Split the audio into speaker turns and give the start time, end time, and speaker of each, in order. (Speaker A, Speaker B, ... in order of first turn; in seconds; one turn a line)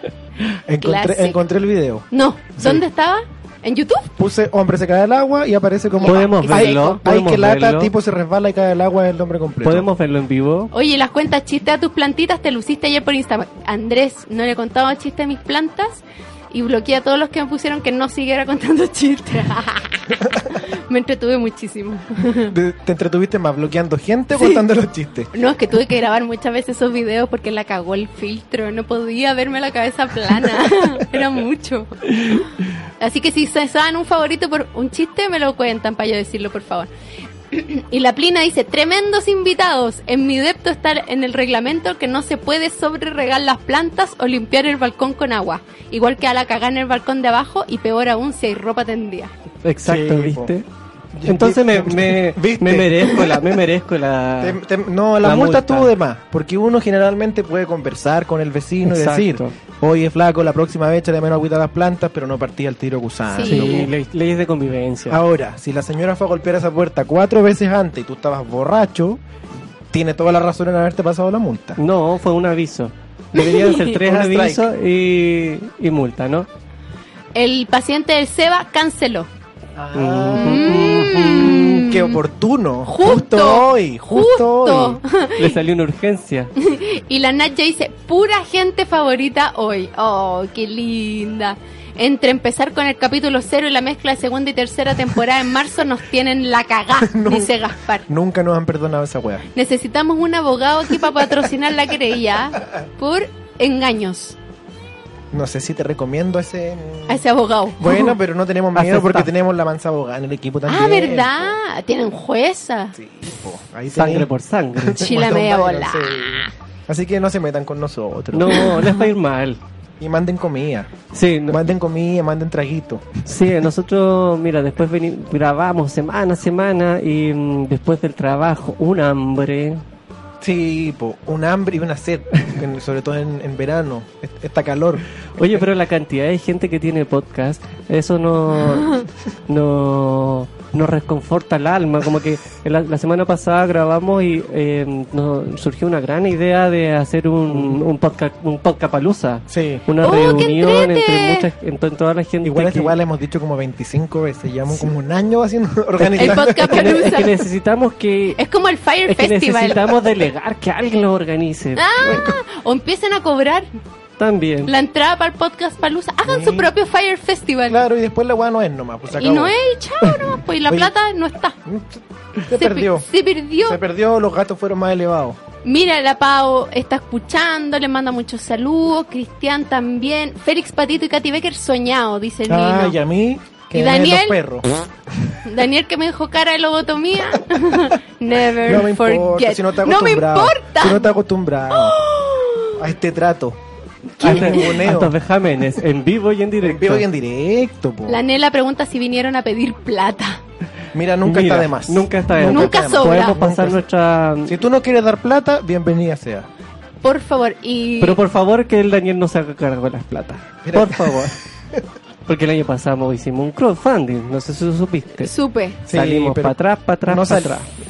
Speaker A: 0.7-2.0
Speaker B: 0.8-1.4
Speaker B: 2.1-4.1
Speaker A: 4.2-9.9
Speaker B: 6.0-7.0
Speaker C: 6.0-7.9
Speaker C: 9.6-10.7
Speaker B: 10.7-22.5
Speaker A: 22.4-25.3
Speaker B: 25.3-32.5
Speaker B: 33.0-36.9
Speaker B: 37.5-49.3
Speaker C: 49.6-50.6
Speaker A: 49.8-50.5
Speaker A: 51.1-53.5
Speaker C: 51.2-54.6
Speaker A: 54.4-63.9
Speaker C: 55.2-55.9
Speaker C: 58.9-59.5
Speaker B: 63.3-63.9
Speaker C: 63.4-65.2
Speaker A: 65.1-69.2
Speaker A: 69.9-71.8
Speaker C: 71.8-76.5
Speaker B: 73.3-73.8
Speaker A: 73.9-74.7
Speaker B: 77.3-79.3
Speaker A: 79.7-85.0
Speaker C: 79.9-81.8
Speaker B: 80.3-82.2
Speaker B: 82.8-85.6
Speaker C: 85.3-86.5
Speaker B: 86.6-98.0
Speaker A: 97.0-97.5
Speaker A: 98.1-99.5
Speaker B: 99.5-104.4
Speaker A: 105.3-107.2
Speaker B: 107.1-108.1
Speaker A: 107.8-111.6
Speaker C: 108.7-109.3
Speaker B: 110.7-113.0
Speaker A: 112.9-119.0
Speaker C: 113.9-115.1
Speaker B: 115.0-116.5
Speaker C: 118.3-119.6
Speaker A: 120.0-120.9
Speaker C: 121.1-121.6
Speaker A: 121.5-123.2
Speaker C: 123.2-129.8
Speaker A: 130.4-135.0
Speaker C: 135.4-152.9
Speaker A: 147.5-147.8
Speaker A: 149.5-149.8
Speaker B: 150.0-151.5
Speaker A: 152.4-157.1
Speaker C: 156.0-158.4
Speaker B: 156.2-157.4
Speaker B: 158.3-160.1
Speaker C: 159.0-162.3
Speaker B: 161.8-163.7
Speaker C: 164.2-164.7
Speaker B: 164.7-167.8
Speaker A: 166.2-166.7
Speaker A: 167.7-169.5
Speaker B: 169.1-171.6
Speaker A: 171.6-173.1
Speaker B: 172.5-173.8
Speaker A: 173.6-175.4
Speaker B: 175.6-183.0
Speaker A: 182.5-185.4
Speaker B: 183.7-184.4
Speaker B: 185.4-191.2
Speaker A: 188.6-192.0
Speaker B: 191.7-192.8
Speaker A: 192.8-193.6
Speaker A: 194.2-195.2
Speaker B: 194.2-194.8
Speaker C: 194.2-197.1
Speaker A: 196.6-198.2
Speaker B: 198.1-200.4
Speaker A: 200.9-203.8
Speaker C: 201.2-204.6
Speaker B: 202.4-203.3
Speaker A: 204.4-206.5
Speaker B: 207.0-208.2
Speaker C: 208.0-211.3
Speaker A: 210.6-211.8
Speaker C: 212.3-215.3
Speaker B: 215.2-215.8
Speaker A: 215.9-216.5
Speaker C: 215.9-217.7
Speaker A: 217.1-217.6